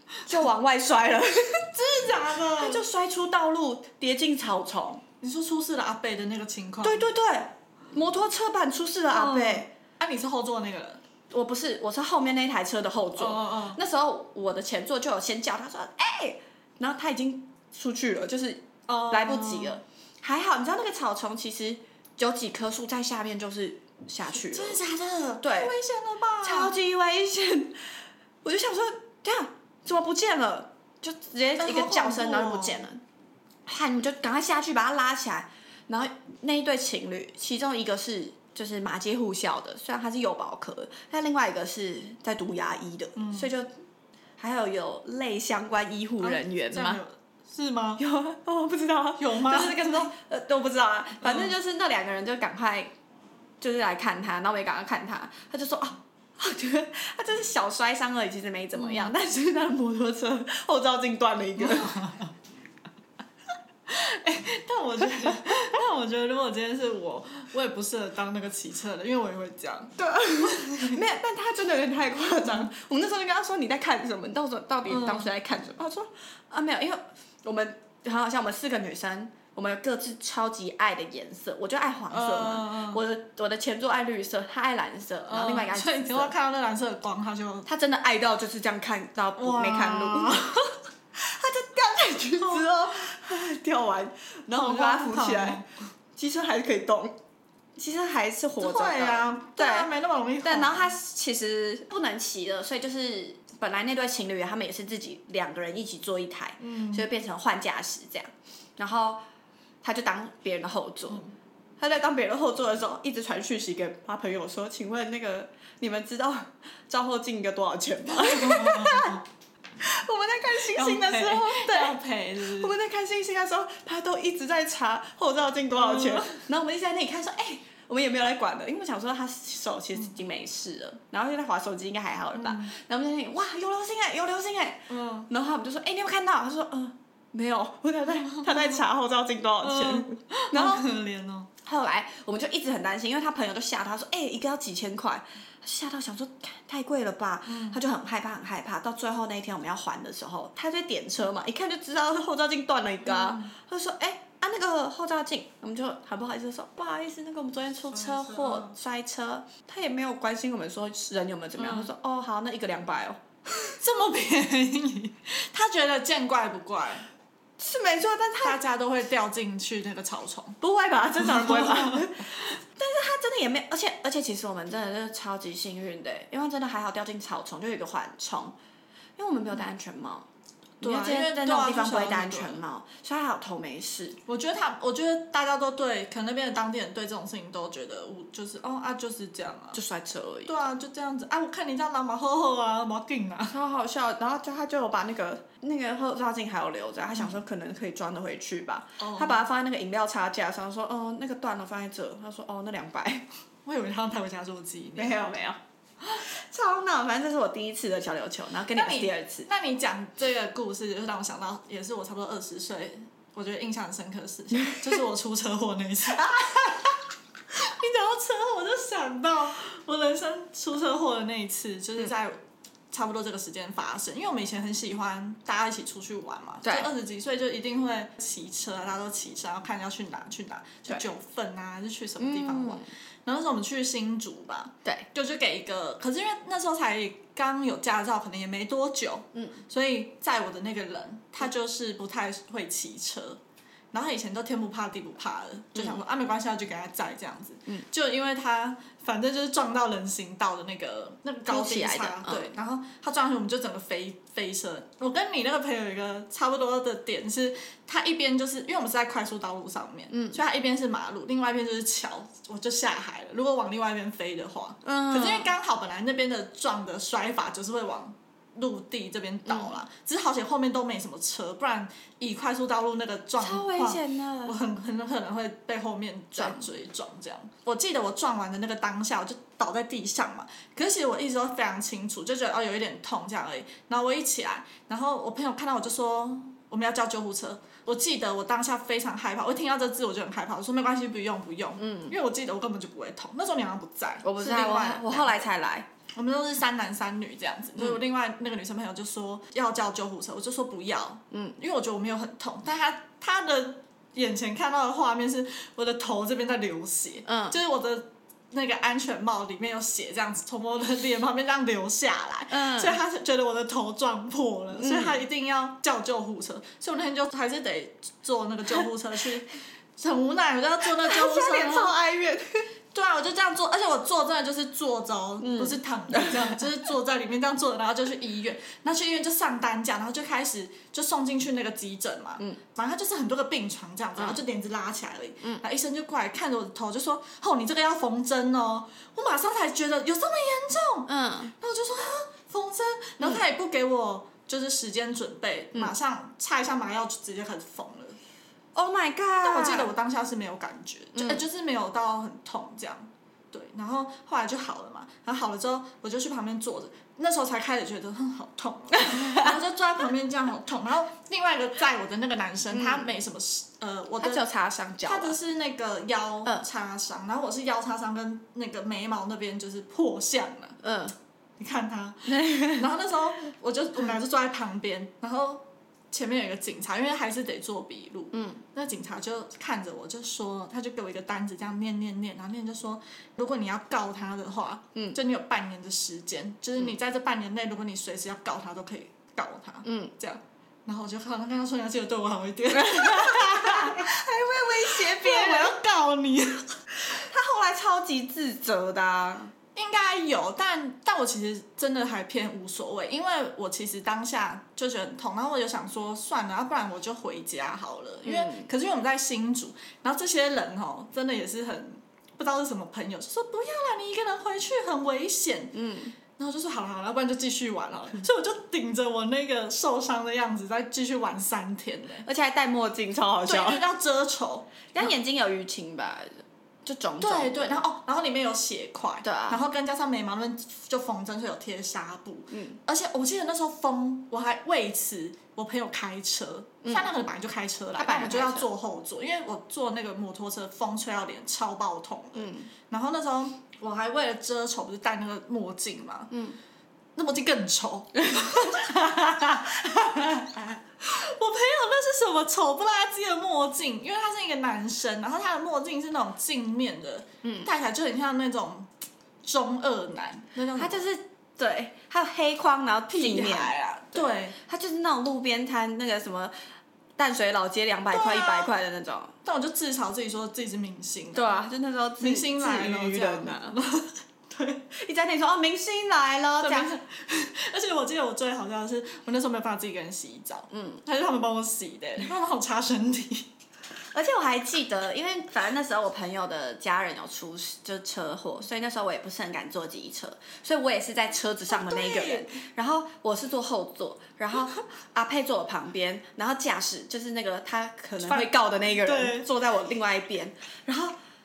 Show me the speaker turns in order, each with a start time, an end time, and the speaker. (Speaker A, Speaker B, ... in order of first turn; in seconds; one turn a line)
Speaker A: 0.1-0.4
Speaker B: 0.2-1.8
Speaker A: 1.7-2.8
Speaker B: 2.3-5.0
Speaker A: 5.2-7.1
Speaker B: 6.8-9.7
Speaker A: 9.1-11.0
Speaker B: 11.3-24.8
Speaker A: 13.2-13.8
Speaker A: 18.9-19.8
Speaker A: 24.3-26.7
Speaker B: 25.4-25.7
Speaker B: 26.4-27.8
Speaker B: 28.4-33.0
Speaker A: 31.6-32.8
Speaker B: 33.6-43.7
Speaker A: 43.1-43.5
Speaker B: 44.4-47.0
Speaker A: 46.2-48.0
Speaker B: 48.0-52.9
Speaker A: 49.2-50.1
Speaker A: 51.2-51.5
Speaker B: 53.6-62.1
Speaker A: 58.7-59.1
Speaker A: 61.6-62.3
Speaker A: 63.9-71.0
Speaker B: 70.0-86.3
Speaker A: 72.4-72.7
Speaker A: 74.9-75.3
Speaker A: 82.1-83.0
Speaker A: 85.3-87.7
Speaker B: 87.7-90.5
Speaker A: 89.4-90.7
Speaker B: 91.1-95.6
Speaker A: 92.4-92.7
Speaker A: 94.5-95.8
Speaker B: 96.2-97.2
Speaker B: 97.8-99.9
Speaker A: 98.6-100.9
Speaker B: 100.4-109.2
Speaker A: 106.6-107.1
Speaker B: 109.8-111.2
Speaker B: 111.8-119.2
Speaker A: 118.1-119.2
Speaker B: 119.8-140.9
Speaker A: 120.6-122.7
Speaker A: 125.7-126.4
Speaker A: 132.3-132.7
Speaker A: 134.9-135.3
Speaker A: 138.3-138.8
Speaker A: 139.6-141.5
Speaker B: 141.6-163.2
Speaker A: 147.5-147.8
Speaker A: 153.0-153.5
Speaker A: 157.9-158.8
Speaker A: 161.6-161.9
Speaker A: 163.6-167.1
Speaker B: 167.6-168.6
Speaker A: 168.4-170.6
Speaker B: 170.6-178.5
Speaker A: 171.2-172.3
Speaker B: 179.2-180.3
Speaker B: 180.8-184.2
Speaker A: 180.8-182.6
Speaker A: 184.3-189.8
Speaker B: 189.7-190.6
Speaker A: 190.5-193.5
Speaker B: 193.5-203.3
Speaker A: 199.0-199.4
Speaker A: 203.6-205.2
Speaker B: 205.0-205.6
Speaker B: 206.1-209.5
Speaker A: 208.7-217.0
Speaker B: 216.3-216.6
Speaker A: 217.5-243.4
Speaker B: 226.6-226.9
Speaker B: 232.2-232.8
Speaker B: 239.3-239.6
Speaker A: 243.9-295.5
Speaker B: 245.7-246.0
Speaker B: 251.5-252.5
Speaker B: 260.1-260.4
Speaker B: 264.8-265.5
Speaker B: 269.5-269.8
Speaker B: 273.4-274.6
Speaker B: 276.4-276.7
Speaker B: 291.8-292.1
Speaker B: 294.2-295.9
Speaker A: 296.1-321.9
Speaker B: 307.2-307.6
Speaker B: 312.5-313.0
Speaker B: 314.7-315.2
Speaker B: 320.9-322.7
Speaker A: 322.9-348.2
Speaker B: 325.4-326.5
Speaker B: 341.1-341.5
Speaker B: 348.7-349.9
Speaker A: 349.4-364.4
Speaker B: 351.1-351.4
Speaker B: 359.0-359.5
Speaker B: 362.7-363.1
Speaker B: 364.2-365.4
Speaker A: 365.0-370.8
Speaker B: 370.8-371.1
Speaker A: 371.6-394.1
Speaker B: 372.3-372.9
Speaker B: 378.3-378.6
Speaker B: 389.8-390.1
Speaker B: 392.7-395.8
Speaker A: 394.7-396.8
Speaker B: 397.0-399.5
Speaker A: 399.7-415.7
Speaker B: 408.2-408.7
Speaker B: 415.7-416.1
Speaker A: 416.3-422.2
Speaker B: 422.2-423.8
Speaker A: 423.4-425.1
Speaker B: 424.9-427.8
Speaker A: 427.2-446.3
Speaker B: 429.2-429.6
Speaker B: 432.5-432.8
Speaker B: 436.8-437.2
Speaker B: 438.0-438.7
Speaker B: 442.3-442.7
Speaker B: 446.3-446.6
Speaker A: 447.1-458.9
Speaker B: 448.2-448.7
Speaker B: 457.4-457.7
Speaker A: 459.4-461.1
Speaker B: 460.8-466.5
Speaker A: 463.1-464.6
Speaker B: 467.2-469.3
Speaker A: 468.1-468.7
Speaker A: 469.4-471.5
Speaker B: 471.3-473.8
Speaker A: 472.2-474.9
Speaker B: 474.9-477.0
Speaker A: 476.6-483.5
Speaker B: 480.7-481.0
Speaker B: 484.1-501.1
Speaker A: 491.7-492.5
Speaker A: 498.2-499.5